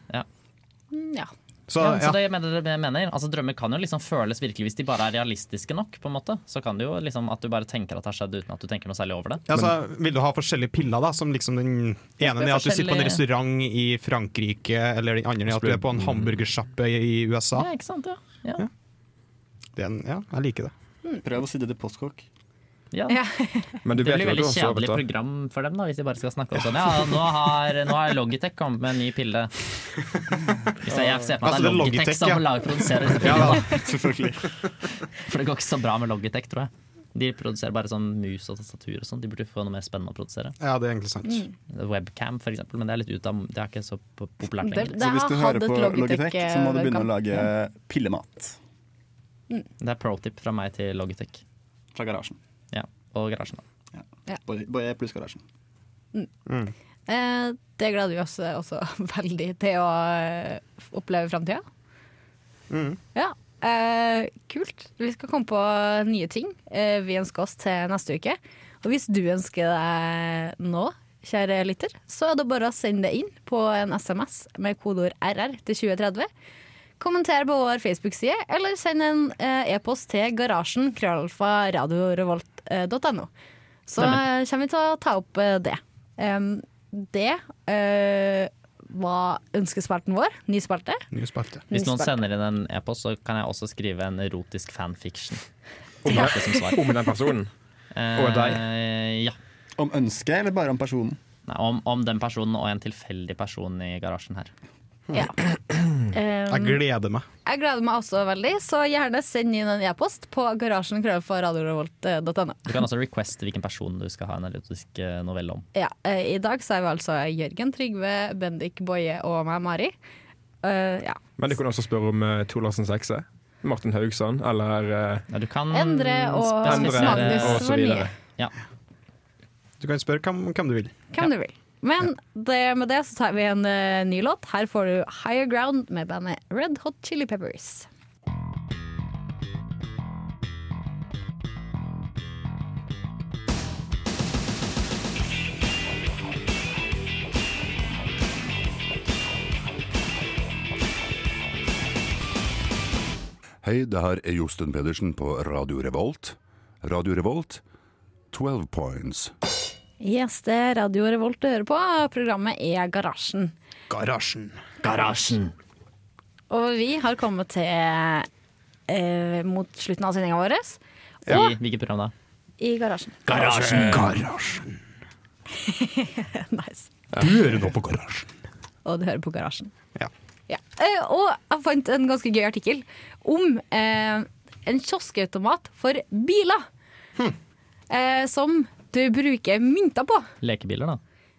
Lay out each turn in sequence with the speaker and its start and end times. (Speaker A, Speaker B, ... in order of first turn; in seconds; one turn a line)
Speaker A: 0.9-1.3
Speaker B: 1.7-2.2
Speaker C: 1.8-9.4
Speaker B: 9.5-17.7
Speaker C: 12.2-13.2
Speaker D: 15.5-16.1
Speaker C: 17.5-18.6
Speaker B: 19.8-20.7
Speaker E: 21.2-22.2
Speaker C: 22.9-23.2
Speaker A: 23.1-23.7
Speaker D: 23.8-25.0
Speaker C: 23.9-29.5
Speaker B: 26.9-27.2
Speaker C: 30.8-33.8
Speaker E: 30.9-31.1
Speaker B: 31.3-33.8
Speaker E: 33.2-34.6
Speaker C: 35.2-40.5
Speaker B: 40.6-41.4
Speaker C: 41.7-45.0
Speaker A: 44.6-47.5
Speaker E: 44.9-48.5
Speaker C: 49.8-51.4
Speaker E: 51.9-52.4
Speaker C: 52.7-53.6
Speaker E: 53.9-55.4
Speaker B: 56.5-56.7
Speaker A: 57.1-61.6
Speaker B: 62.7-63.0
Speaker A: 63.1-76.3
Speaker A: 77.0-83.3
Speaker A: 83.9-91.0
Speaker B: 91.1-91.7
Speaker C: 91.7-95.4
Speaker A: 91.7-92.2
Speaker D: 96.0-97.5
Speaker C: 96.0-96.8
Speaker A: 96.1-96.4
Speaker C: 97.9-99.3
Speaker D: 98.1-98.6
Speaker E: 99.8-101.2
Speaker C: 101.5-104.5
Speaker A: 105.1-105.4
Speaker A: 106.1-106.8
Speaker B: 106.5-107.2
Speaker A: 107.4-112.7
Speaker C: 112.7-115.6
Speaker A: 115.7-119.9
Speaker A: 120.6-121.2
Speaker D: 121.4-125.3
Speaker C: 125.3-127.7
Speaker A: 125.7-128.1
Speaker D: 126.6-128.2
Speaker B: 129.8-130.9
Speaker A: 131.1-137.9
Speaker F: 153.6-157.6
Speaker F: 158.3-159.3
Speaker A: 160.0-163.5
Speaker B: 163.9-164.6
Speaker C: 164.8-165.5
Speaker A: 166.5-168.3
Speaker A: 168.9-171.5
Speaker B: 171.2-171.5
Speaker C: 171.3-172.1
Speaker A: 172.6-173.2
Speaker B: 173.3-174.8
Speaker C: 173.3-174.1
Speaker A: 175.6-176.9
Speaker B: 177.2-178.3
Speaker A: 178.8-179.7
Speaker A: 180.5-186.7
Speaker A: 187.9-190.3
Speaker C: 190.4-191.0